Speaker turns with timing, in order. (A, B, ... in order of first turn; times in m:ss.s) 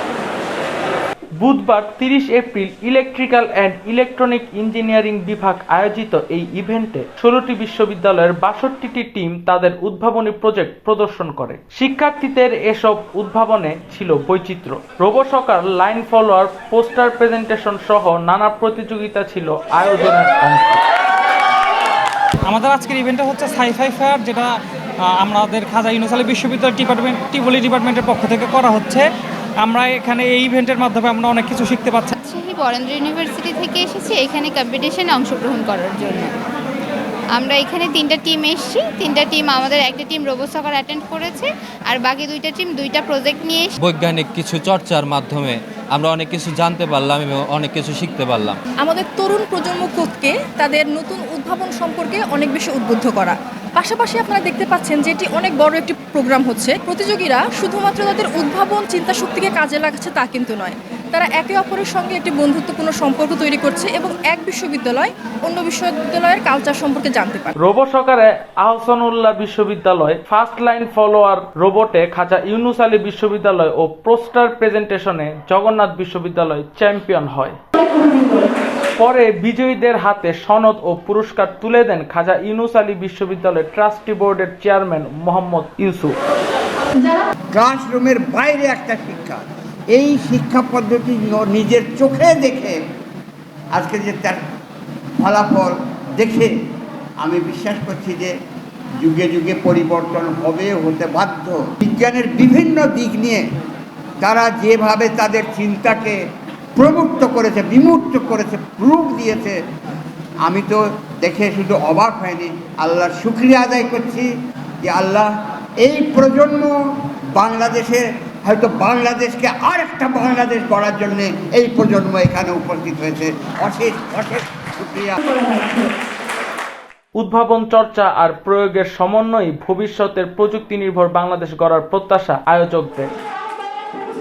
0:01.4-0:20.8 A
0:22.5-0:24.6 B
0:25.1-0:29.1 B
0:29.6-0:32.1 B
0:32.2-0:36.3 C
0:37.4-0:43.7 C
0:43.8-0:48.6 D
0:48.9-1:07.5 E
1:07.6-1:17.6 A
1:19.0-1:26.2 A
1:27.5-1:29.4 F
1:29.9-1:32.8 F
1:33.8-1:34.4 F
1:35.2-1:36.5 F
1:37.2-1:38.3 F
1:39.0-1:43.4 F
1:44.2-1:46.2 F
1:46.8-1:49.6 F
1:50.5-1:54.3 F
1:54.8-1:55.3 F
1:55.8-1:56.7 F
1:57.4-2:05.2 F
2:07.2-2:13.1 A